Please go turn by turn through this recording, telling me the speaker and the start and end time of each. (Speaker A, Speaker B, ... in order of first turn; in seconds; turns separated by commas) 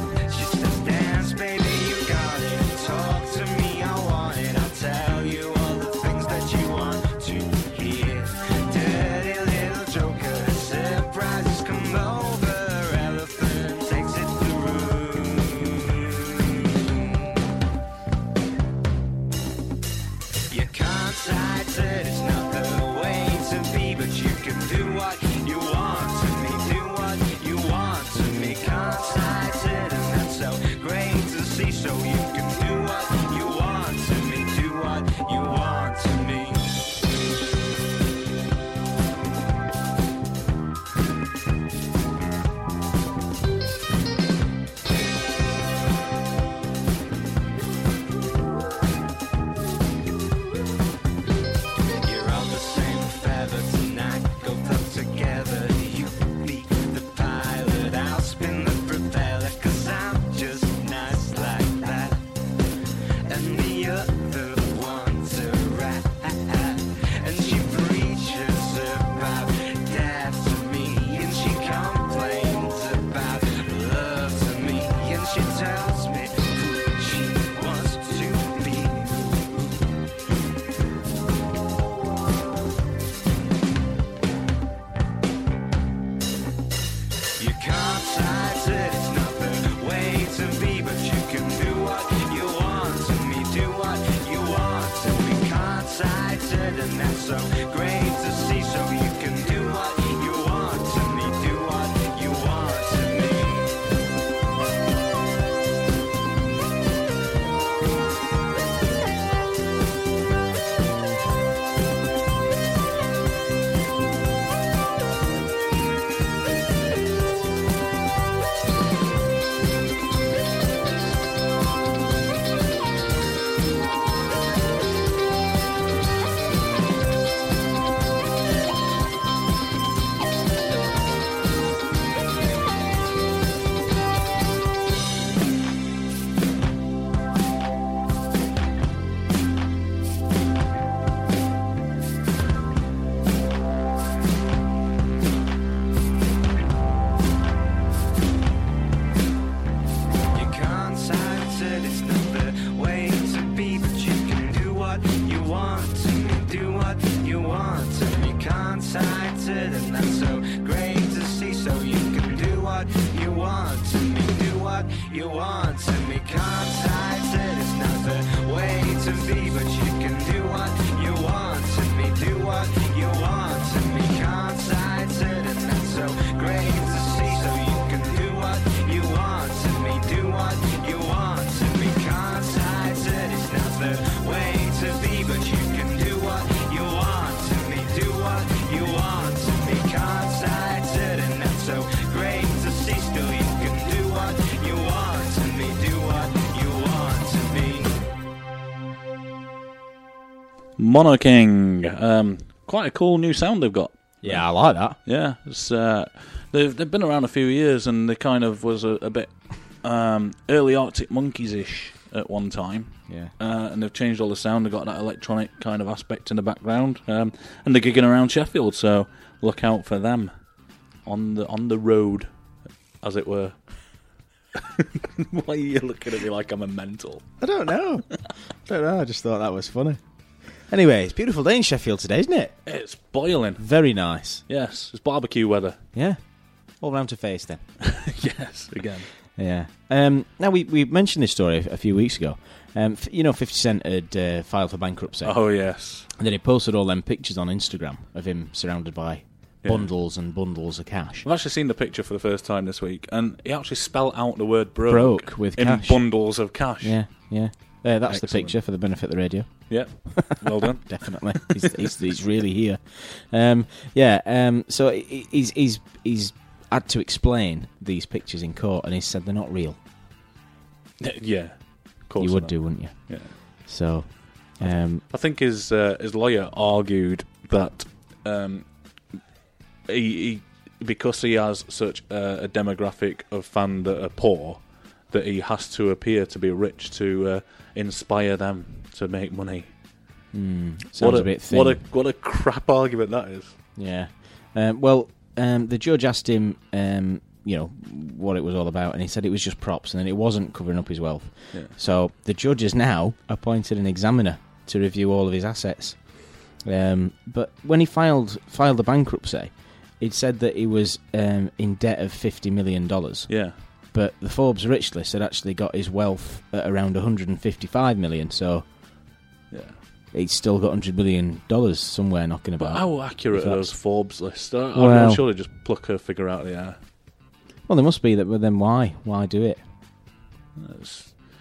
Speaker A: 0.2-17.4, Speaker A: 20.5-36.8, Speaker A: 52.0-62.2, Speaker A: 63.2-79.8, Speaker A: 87.4-103.7, Speaker A: 150.3-197.9, Speaker B: 200.8-220.3, Speaker C: 204.2-205.0, Speaker C: 213.1-213.3, Speaker B: 221.0-222.3, Speaker B: 223.0-223.6, Speaker B: 224.5-227.3, Speaker C: 227.4-230.0, Speaker C: 230.6-232.5, Speaker B: 232.6-233.6, Speaker C: 233.6-234.4, Speaker B: 234.5-235.8, Speaker C: 235.9-236.2, Speaker C: 236.7-237.6, Speaker B: 237.8-239.1, Speaker C: 239.3-251.2, Speaker B: 245.2-246.1, Speaker B: 249.6-249.9, Speaker B: 251.2-257.3, Speaker C: 254.8-269.8, Speaker B: 258.1-258.6, Speaker B: 259.7-261.9, Speaker B: 271.0-273.4, Speaker C: 272.2-275.0, Speaker B: 274.6-278.9, Speaker B: 279.9-289.7, Speaker C: 290.3-291.8, Speaker B: 291.0-293.6, Speaker C: 293.8-318.6, Speaker B: 313.3-313.6, Speaker B: 319.5-319.8, Speaker C: 320.1-323.7, Speaker B: 322.6-326.8, Speaker C: 324.7-325.2, Speaker C: 327.7-329.6, Speaker B: 330.6-331.2